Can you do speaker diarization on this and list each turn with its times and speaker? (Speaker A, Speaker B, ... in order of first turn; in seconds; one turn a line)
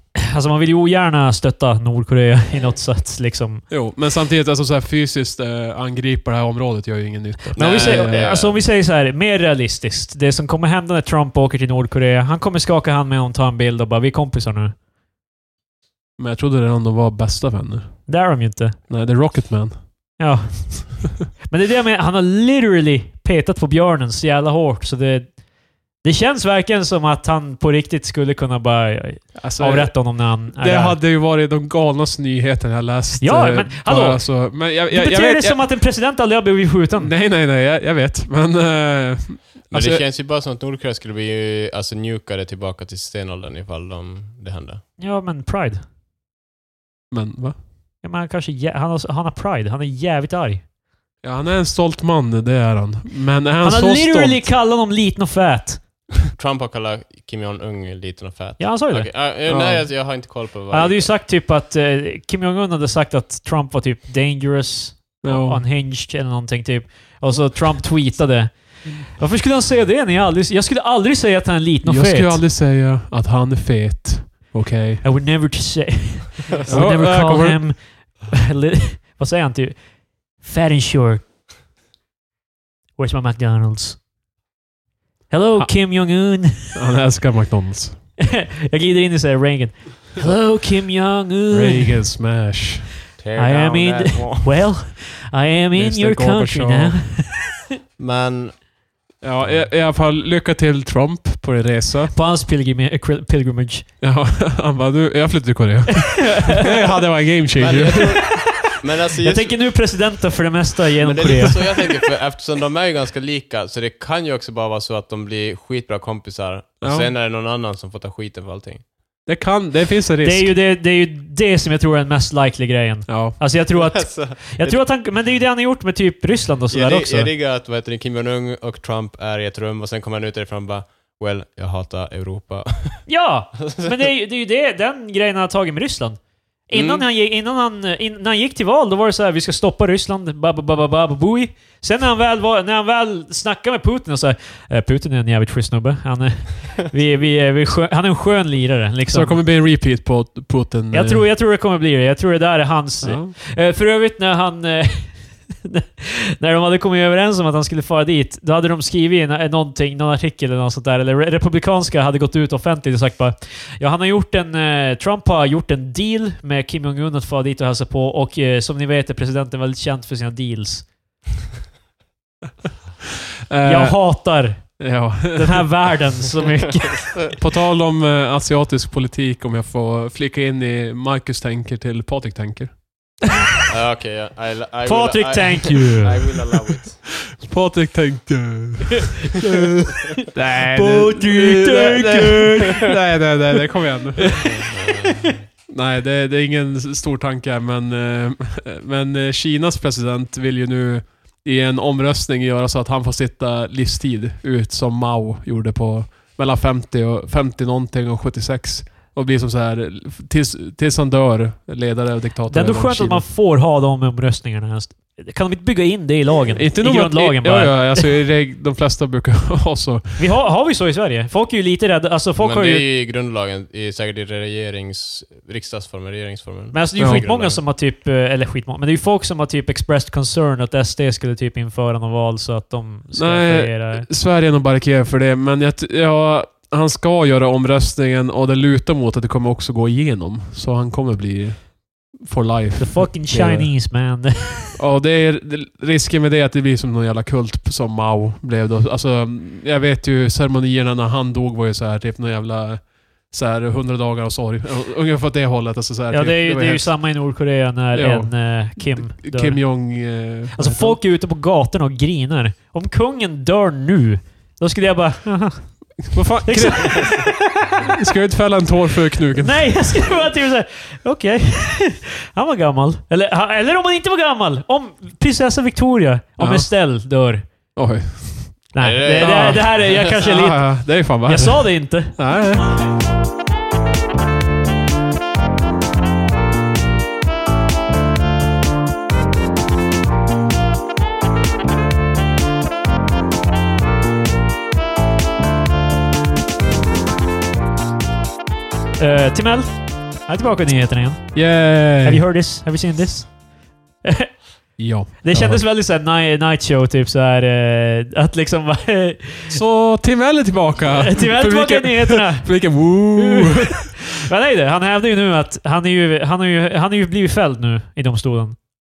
Speaker A: 0.2-3.6
Speaker B: 3.7-8.3
Speaker A: 7.5-14.7
Speaker C: 7.5-8.6
Speaker B: 16.2-18.1
Speaker A: 18.1-18.8
Speaker B: 18.9-20.2
Speaker A: 20.2-25.4
Speaker A: 26.0-31.0
Speaker B: 29.3-35.6
Speaker A: 33.2-37.1
Speaker B: 37.0-40.0
Speaker C: 39.7-44.8
Speaker A: 45.0-45.8
Speaker B: 47.1-47.5
Speaker A: 48.0-50.6
Speaker B: 51.2-54.5
Speaker A: 53.6-56.0
Speaker C: 56.3-61.1
Speaker A: 58.6-59.2
Speaker B: 59.5-59.9
Speaker A: 60.7-72.4
Speaker B: 65.2-65.6
Speaker B: 71.8-75.0
Speaker A: 75.0-79.8
Speaker B: 76.7-77.6
Speaker A: 80.4-81.2
Speaker A: 83.0-84.0
Speaker A: 85.3-86.7
Speaker B: 86.7-88.0
Speaker A: 88.2-92.0
Speaker B: 91.5-92.9
Speaker C: 93.2-94.6
Speaker A: 93.4-97.6
Speaker B: 95.7-97.0
Speaker C: 98.0-98.6
Speaker B: 99.2-102.1
Speaker C: 99.4-99.7
Speaker A: 102.1-103.8
Speaker B: 104.0-108.3
Speaker A: 106.0-106.7
Speaker C: 107.5-109.6
Speaker A: 108.0-112.0
Speaker C: 111.0-118.8
Speaker B: 116.8-117.1
Speaker B: 119.2-120.5
Speaker A: 120.2-127.3
Speaker B: 123.1-123.4
Speaker C: 123.7-124.8
Speaker C: 126.7-133.0
Speaker A: 133.1-149.4
Speaker C: 133.7-133.9
Speaker C: 136.7-137.1
Speaker B: 149.1-151.2
Speaker A: 150.9-170.8
Speaker B: 153.0-153.3
Speaker B: 173.5-174.0
Speaker A: 173.6-177.3
Speaker B: 174.8-175.7
Speaker B: 177.3-182.7
Speaker C: 183.7-187.0
Speaker A: 184.8-186.5
Speaker B: 187.3-194.4
Speaker A: 190.7-192.8
Speaker C: 194.4-195.4
Speaker B: 195.7-213.2
Speaker A: 212.5-218.1
Speaker B: 216.5-220.2
Speaker A: 220.2-222.8
Speaker C: 222.4-227.6
Speaker A: 226.7-234.1
Speaker B: 227.0-227.2
Speaker B: 233.1-243.7
Speaker A: 242.8-244.8
Speaker B: 244.8-256.9
Speaker A: 256.1-259.9
Speaker B: 257.9-261.0
Speaker A: 260.5-267.8
Speaker B: 266.1-267.3
Speaker B: 267.8-269.7
Speaker A: 269.4-277.4
Speaker B: 276.4-276.7
Speaker B: 277.7-282.8
Speaker A: 278.7-282.2
Speaker C: 278.8-280.2
Speaker A: 299.0-303.4
Speaker B: 301.3-302.2
Speaker A: 304.0-304.4
Speaker B: 304.8-305.6
Speaker A: 305.2-309.6
Speaker B: 309.5-314.0
Speaker A: 310.9-318.6